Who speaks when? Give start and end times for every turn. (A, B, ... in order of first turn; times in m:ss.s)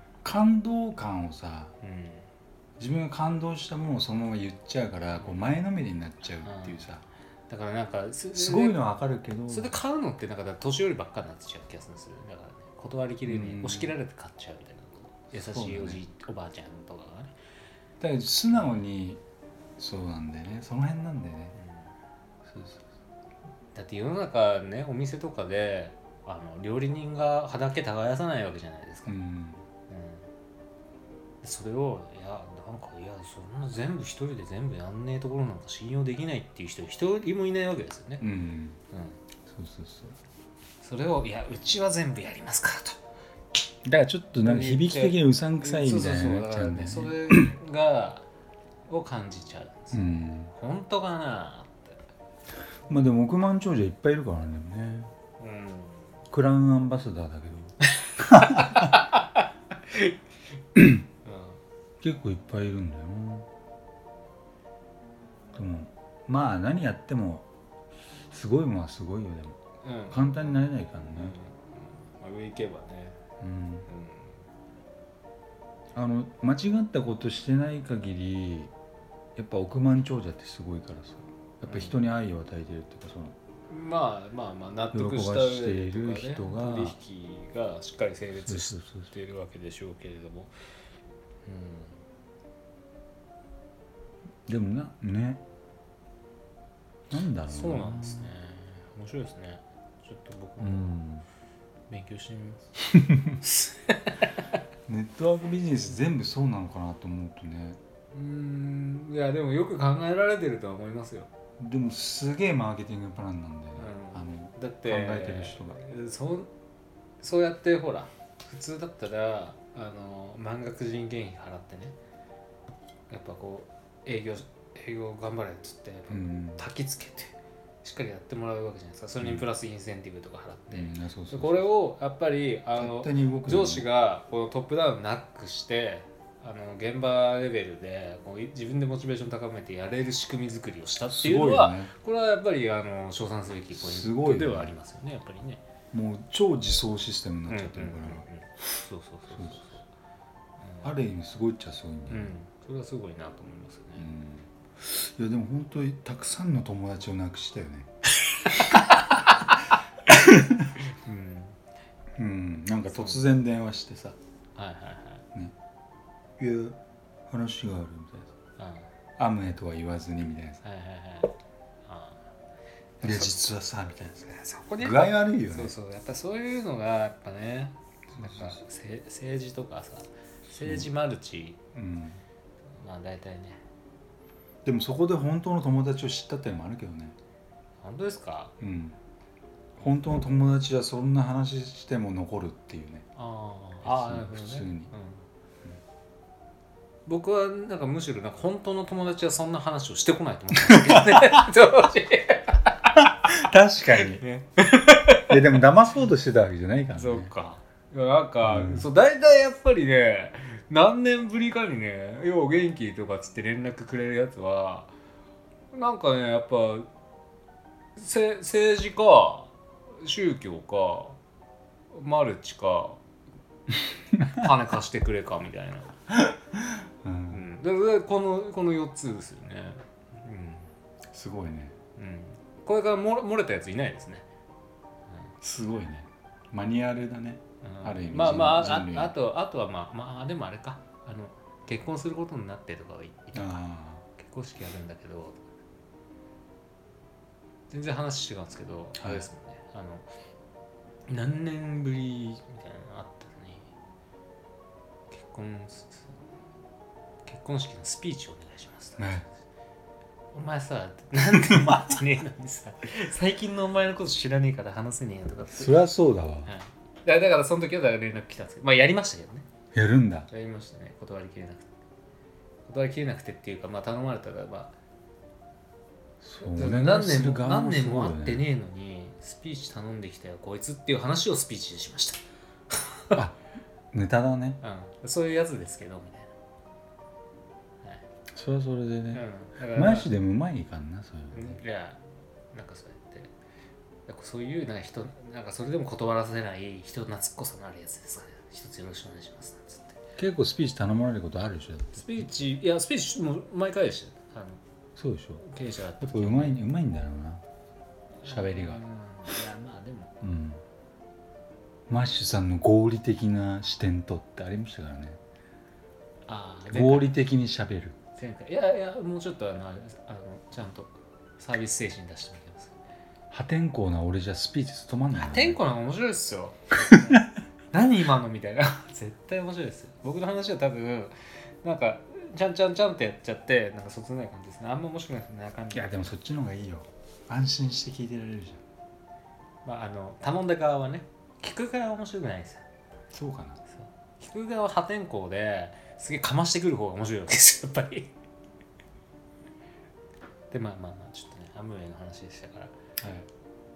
0:00.2-0:01.7 A
0:01.8-0:02.3 B
0:02.8-0:07.0 A
0:05.2-0:05.5 B
0:06.4-0:06.9 B
0:07.5-0:08.8 B
0:08.3-0:09.8 A
0:09.5-0:17.3 B
0:13.2-0:14.0 A
0:15.3-0:16.0 A
0:18.0-0:19.2 A
0:19.8-0:21.6 A
0:21.6-0:21.9 B
0:22.5-0:22.9 A
0:23.8-0:29.2 B
0:29.1-0:29.6 A
0:29.9-0:30.3 B
0:31.4-0:38.3 B
0:38.2-0:38.8 A
0:38.9-0:39.2 B
0:39.5-0:40.2 A
0:40.8-0:43.0 B
0:43.8-0:47.6 A
0:44.4-0:48.3 B
0:48.9-0:52.0 B
0:49.9-0:50.5 A
0:52.9-0:55.1 A
0:55.4-0:56.2 B
0:56.3-0:58.9 A
0:58.0-1:00.2 B
1:00.8-1:01.0 A
1:01.2-1:01.6 B
1:02.0-1:03.5 A
1:05.6-1:07.5 A
1:08.3-1:09.6 A
1:09.8-1:13.2 B
1:10.1-1:11.4 A
1:13.4-1:13.9 A
1:13.9-1:14.4 B
1:16.0-1:18.7 A
1:19.4-1:23.4 A
1:21.7-1:22.0 B
1:23.7-1:30.5 B
1:24.9-1:27.0 A
1:28.3-1:29.1 A
1:31.4-1:32.0 B
1:34.5-1:35.4 A
1:37.1-1:38.4 A
1:37.5-1:40.9 B
1:40.6-1:41.3 A
1:41.9-1:42.8 B
1:43.0-1:43.4 A
1:43.4-1:44.4 B
1:44.9-1:47.8 A
1:48.1-1:51.3 B
1:51.6-1:55.8 A
1:53.8-1:56.5 B
1:57.2-2:02.0 B
2:03.1-2:25.6 B
2:06.1-2:06.7 A
2:09.2-2:09.5 A
2:10.7-2:11.7 A
2:12.8-2:13.9 A
2:21.1-2:21.9 A
2:23.7-2:24.8 A
2:25.9-2:28.3 A
2:27.5-2:29.8 B
2:29.3-2:29.8 A
2:30.6-2:30.9 B
2:30.8-2:32.4 A
2:32.1-2:34.1 B
2:34.0-2:37.9 A
2:38.3-2:38.8 B
2:40.1-2:40.8 A
2:40.8-2:41.6 B
2:42.2-2:44.2 A
2:42.9-2:43.2 B
2:44.6-2:45.2 B
2:46.4-2:46.8 A
2:47.3-2:48.3 A
2:48.6-2:48.9 B
2:49.2-2:50.6 A
2:50.6-2:52.2 B
2:53.0-2:53.5 B
2:53.0-2:55.8 A
2:54.3-3:01.6 B
2:58.1-2:58.6 A
3:00.5-3:00.9 A
3:01.8-3:02.2 A
3:02.8-3:03.6 B
3:04.6-3:07.2 A
3:07.8-3:08.5 B
3:08.6-3:09.0 A
3:09.8-3:13.1 A
3:13.2-3:15.2 B
3:13.8-3:14.9 A
3:17.1-3:22.8 B
3:20.6-3:21.3 A
3:23.0-3:24.2 A
3:24.0-3:25.6 B
3:25.3-3:27.3 A
3:27.0-3:34.9 B
3:28.4-3:28.9 A
3:35.7-3:36.9 B
3:38.0-3:41.2 B
3:41.9-3:43.0 B
3:44.2-3:46.0 B
3:46.1-3:47.4 A
3:47.3-3:50.7 B
3:51.1-3:51.8 A
3:52.0-3:54.3 B
3:55.4-3:59.2 A
3:57.6-4:05.4 B
4:03.3-4:04.0 A
4:07.7-4:10.1 B
4:09.0-4:09.3 A
4:11.1-4:13.7 B
4:15.1-4:16.2 B
4:17.2-4:19.3 B
4:19.0-4:19.3 A
4:20.3-4:25.8 B
4:21.5-4:22.0 A
4:25.5-4:26.5 A
4:26.4-4:29.5 B
4:29.7-4:30.3 A
4:30.3-4:31.7 B
4:32.7-4:34.7 B
4:36.2-4:38.5 A
4:36.4-4:42.2 B
4:43.9-4:44.6 A
4:44.6-4:46.3 B
4:48.3-4:51.6 A
4:49.1-4:50.1 B
4:51.3-4:52.0 B
4:52.5-4:53.3 B
4:54.1-5:00.0 B
5:00.2-5:02.4 A
5:02.0-5:04.6 B
5:05.0-5:05.4 A
5:05.4-5:06.6 B
5:06.0-5:07.4 A
5:08.2-5:10.1 B
5:08.2-5:08.8 A
5:10.2-5:10.6 A
5:11.9-5:15.2 A
5:16.3-5:17.2 B
5:16.7-5:18.0 A
5:18.2-5:22.8 B
5:23.3-5:25.6 A
5:25.2-5:36.2 B
5:35.7-5:38.6 A
5:39.6-5:42.6 B
5:43.1-5:43.6 A
5:43.7-5:48.1 B
5:50.5-5:52.7 B
5:53.0-5:53.3 A